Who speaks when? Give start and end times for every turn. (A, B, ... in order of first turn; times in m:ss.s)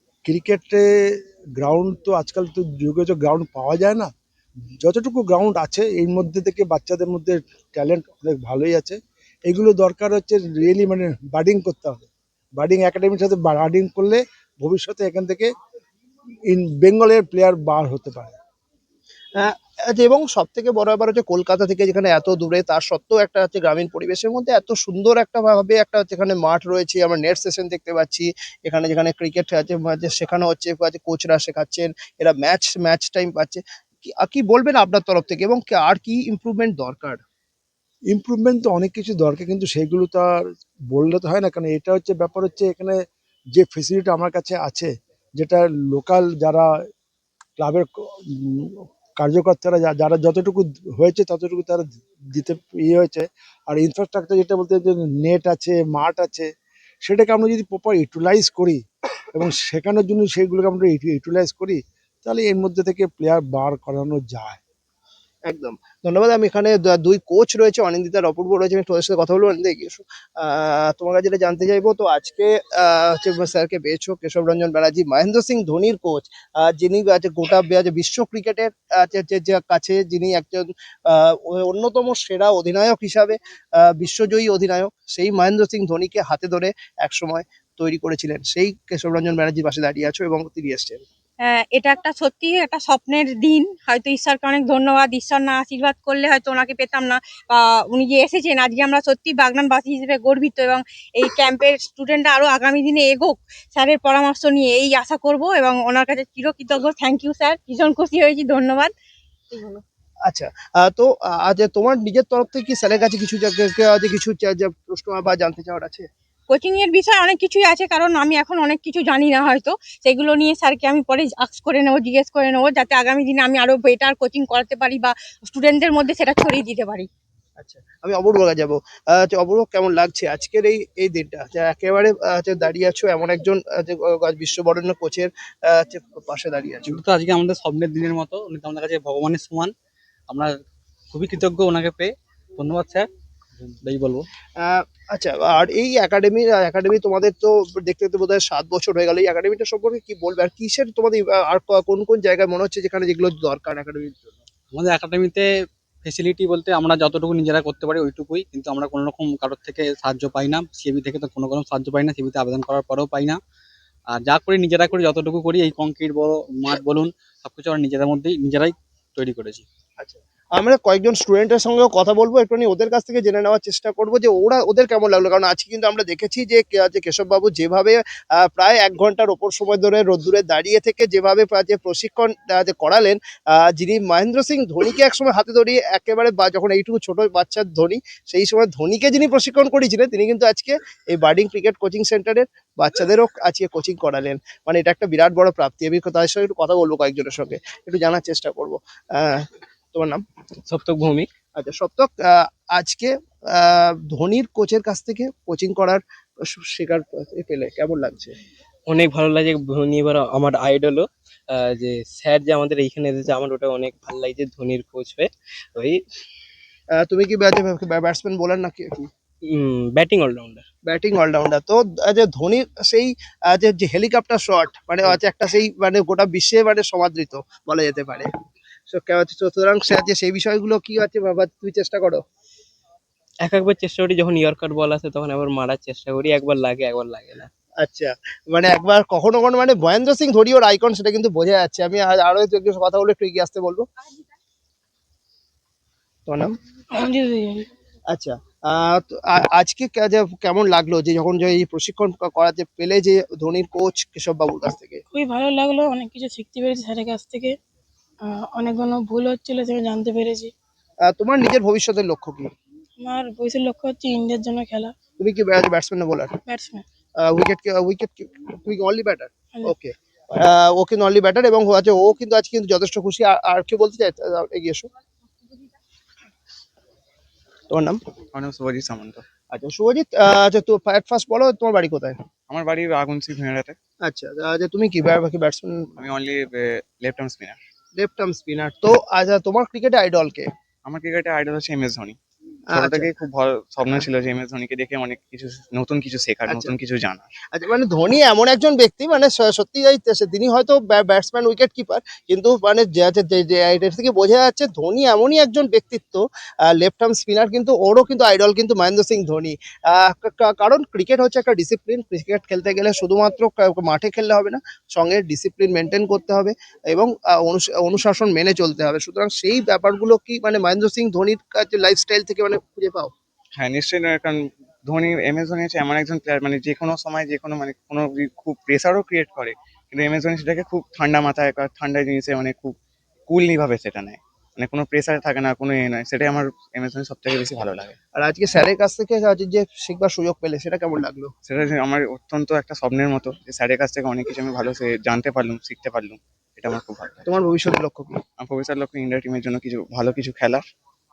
0:00.2-0:04.1 A
0:04.8-0:15.5 A
0:16.5-0:18.4 A
0:19.4-0:37.2 B
0:38.1-0:43.0 A
0:43.5-0:46.7 A
0:47.6-0:56.5 A
0:57.0-0:58.8 A
0:59.3-1:04.6 A
1:05.5-1:31.0 B
1:31.4-1:48.9 C
1:49.5-1:49.8 C
1:50.3-1:56.1 B
1:56.5-2:07.1 C
2:07.6-2:17.0 B
2:16.9-2:19.7 D
2:21.1-2:23.1 D
2:23.7-2:24.2 D
2:24.6-2:34.4 B
2:34.7-2:35.5 D
2:36.0-2:43.4 D
2:44.1-2:49.6 D
2:50.0-3:20.2 B
3:20.6-3:21.3 E
3:21.5-3:28.3 B
3:28.9-3:36.0 E
3:37.0-3:39.1 B
3:39.4-3:40.6 E
3:40.8-3:48.3 B
3:48.9-3:52.2 B
3:53.4-3:57.5 E
3:57.8-4:03.9 B
4:06.3-4:06.6 B
4:06.9-4:07.7 F
4:08.1-4:15.0 B
4:15.1-4:17.6 F
4:18.2-4:20.5 F
4:21.0-4:22.5 B
4:23.0-4:24.9 F
4:25.2-4:26.3 B
4:26.5-4:26.8 F
4:27.2-4:34.9 B
4:37.7-4:38.0 B
4:38.3-4:39.2 G
4:39.5-4:42.2 B
4:42.5-4:43.8 G
4:44.0-4:45.8 B
4:46.0-4:47.6 G
4:48.0-4:50.5 B
4:50.8-4:52.2 G
4:52.7-4:57.3 G
4:52.7-4:53.1 B
4:56.5-4:56.7 B
4:57.5-5:23.1 B
5:23.5-5:32.8 G
5:33.3-5:38.0 G
5:38.1-5:41.3 B
5:41.4-5:47.3 G
5:47.3-5:48.1 B
5:48.4-5:50.6 G